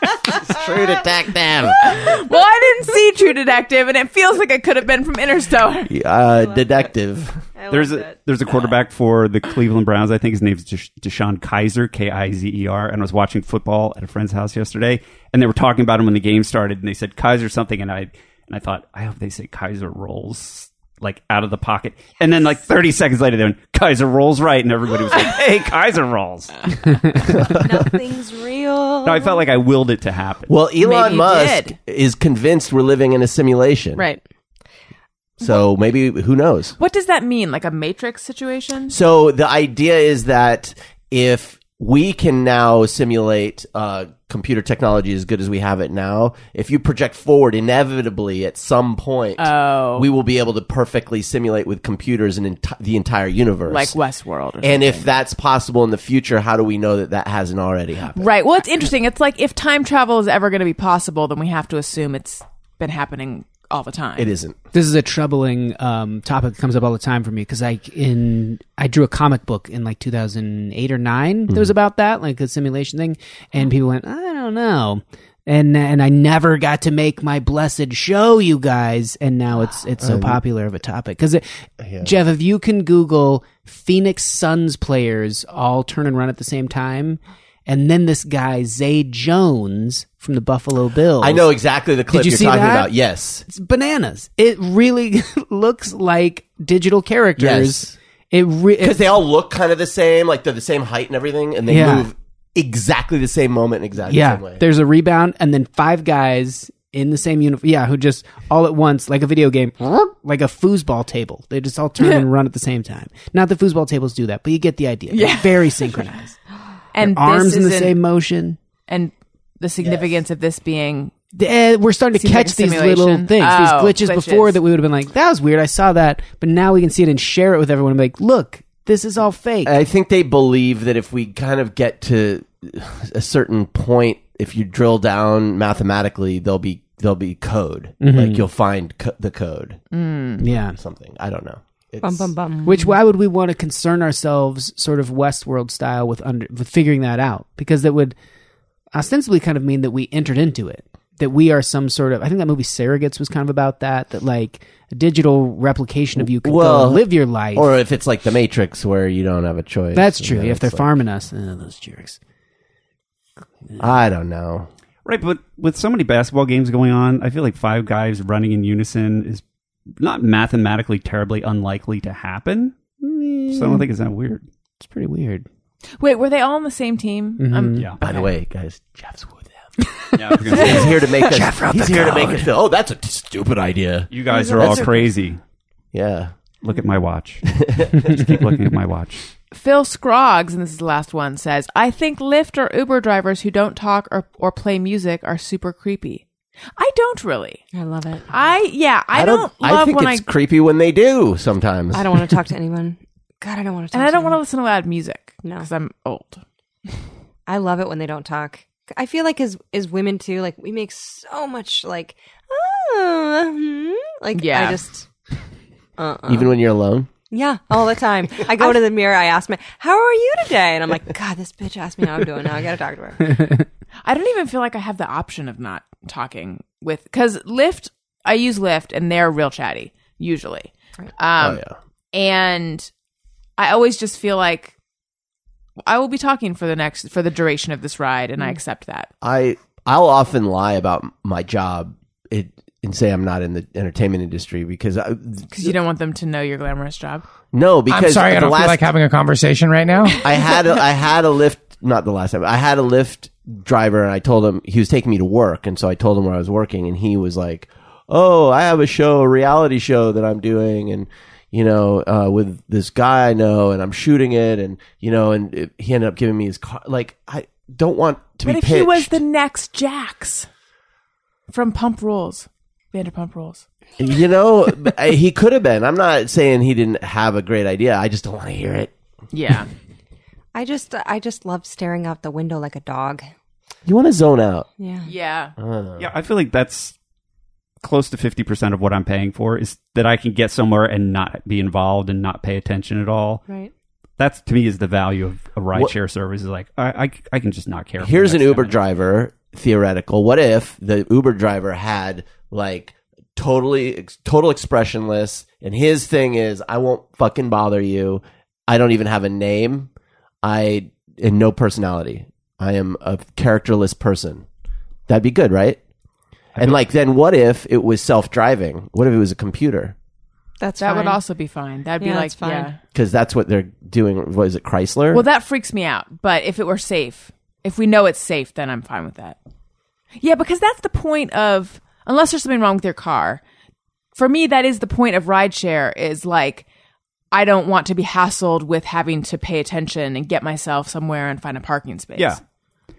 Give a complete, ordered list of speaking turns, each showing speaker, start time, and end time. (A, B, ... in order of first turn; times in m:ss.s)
0:00.4-0:02.1 A
0:01.8-0:05.9 B
0:05.9-0:07.4 A
0:07.6-0:08.2 C
0:07.7-0:27.1 D
0:27.5-0:29.4 C
0:29.0-0:30.5 D
0:30.5-0:34.0 A
0:30.8-0:31.8 B
0:34.0-0:34.2 C
0:35.4-0:36.8 A
0:36.8-0:38.9 B
0:38.9-0:54.0 A
0:49.4-0:50.1 B
0:53.7-0:55.1 B
0:54.6-0:58.3 A
0:58.2-1:04.3 B
1:04.2-1:04.6 A
1:04.7-1:21.4 E
1:20.0-1:20.4 A
1:21.8-1:22.1 A
1:22.0-1:31.5 E
1:31.2-1:33.4 A
1:32.1-1:32.9 E
1:33.4-1:39.2 E
1:37.4-1:37.9 A
1:38.8-1:44.6 A
1:41.7-1:42.1 E
1:44.1-1:56.4 E
1:55.1-1:56.1 B
1:56.9-1:58.0 B
1:57.0-1:58.6 E
1:58.9-2:01.1 B
1:59.8-2:00.1 A
2:01.3-2:09.8 E
2:02.1-2:04.6 B
2:09.6-2:19.8 A
2:18.0-2:18.4 E
2:19.9-2:20.4 B
2:20.4-2:20.8 E
2:20.8-2:22.3 A
2:22.0-2:22.9 C
2:22.6-2:28.2 E
2:28.9-2:37.7 E
2:36.2-2:40.9 A
2:39.9-2:42.2 E
2:43.8-2:44.7 A
2:45.0-2:49.4 D
2:50.0-2:52.7 D
2:53.0-2:53.8 E
2:53.5-2:54.4 D
2:54.8-2:55.4 E
2:56.0-2:57.8 B
2:57.4-2:57.9 E
2:58.0-2:59.6 A
3:00.1-3:01.0 D
3:00.5-3:04.8 A
3:01.3-3:02.5 E
3:04.1-3:05.4 D
3:04.3-3:05.1 C
3:05.9-3:06.3 A
3:06.6-3:09.2 D
3:07.5-3:08.1 A
3:09.5-3:17.6 B
3:17.7-3:18.2 C
3:18.3-3:20.3 B
3:19.1-3:22.3 A
3:21.9-3:24.4 C
3:23.9-3:26.4 B
3:25.4-3:25.7 C
3:27.5-3:35.0 C
3:34.3-3:34.8 B
3:36.0-3:36.5 C
3:36.3-3:37.1 A
3:37.3-3:43.6 C
3:44.0-3:51.6 B
3:51.4-3:51.8 A
3:52.1-3:52.9 B
3:53.6-3:54.7 B
3:55.8-3:59.1 B
3:59.2-4:05.7 A
4:05.5-4:07.2 B
4:07.5-4:08.9 A
4:07.9-4:10.2 F
4:10.2-4:29.1 A
4:10.2-4:10.6 B
4:28.4-4:30.5 B
4:31.5-4:33.6 B
4:34.0-4:38.9 A
4:39.3-4:39.7 B
4:40.5-4:43.3 C
4:43.8-4:44.7 A
4:44.8-4:45.1 C
4:45.0-4:45.5 B
4:45.6-4:46.1 A
4:46.0-4:46.9 D
4:47.8-4:53.4 D
4:54.2-4:58.8 D
4:58.0-5:09.9 A
5:10.4-5:14.4 A
5:15.1-5:15.8 A
5:16.6-5:19.9 A
5:20.6-5:21.2 C
5:20.8-5:22.8 B
5:22.0-5:22.7 C
5:22.9-5:25.2 A
5:25.1-5:29.4 B
5:30.2-5:33.4 B
5:34.1-5:36.6 B
5:37.3-5:42.4 B